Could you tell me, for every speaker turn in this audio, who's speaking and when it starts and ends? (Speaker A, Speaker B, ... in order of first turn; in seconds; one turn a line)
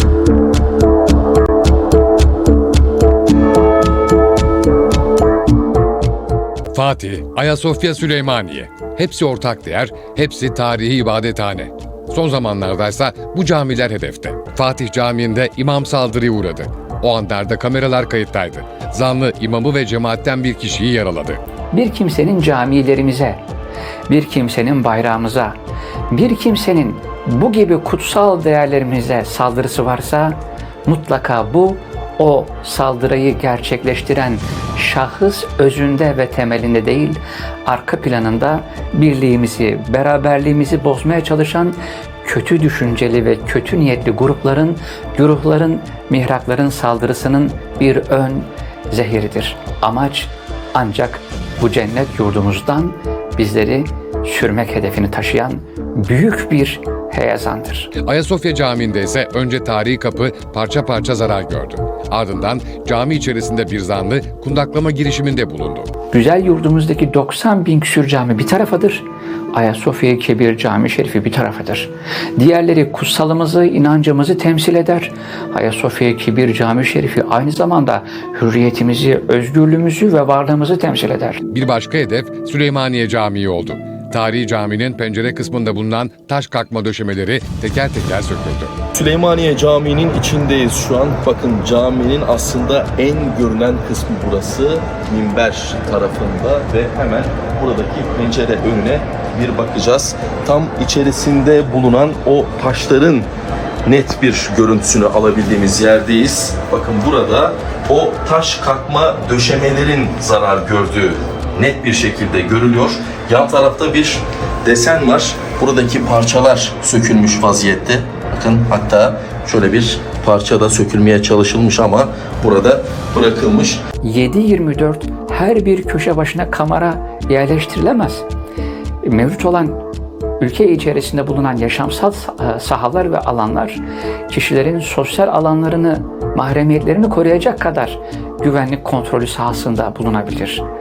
Speaker A: 6.7-21.4
Speaker B: 21.7-23.4
Speaker B: 24.1-25.6
Speaker B: 26.1-57.9
Speaker A: 58.0-65.9
Speaker B: 66.1-81.4
Speaker A: 81.5-88.7
Speaker C: 88.9-103.3
Speaker C: 103.8-123.8
Speaker B: 124.0-128.2
Speaker B: 129.0-129.8
Speaker B: 130.4-140.6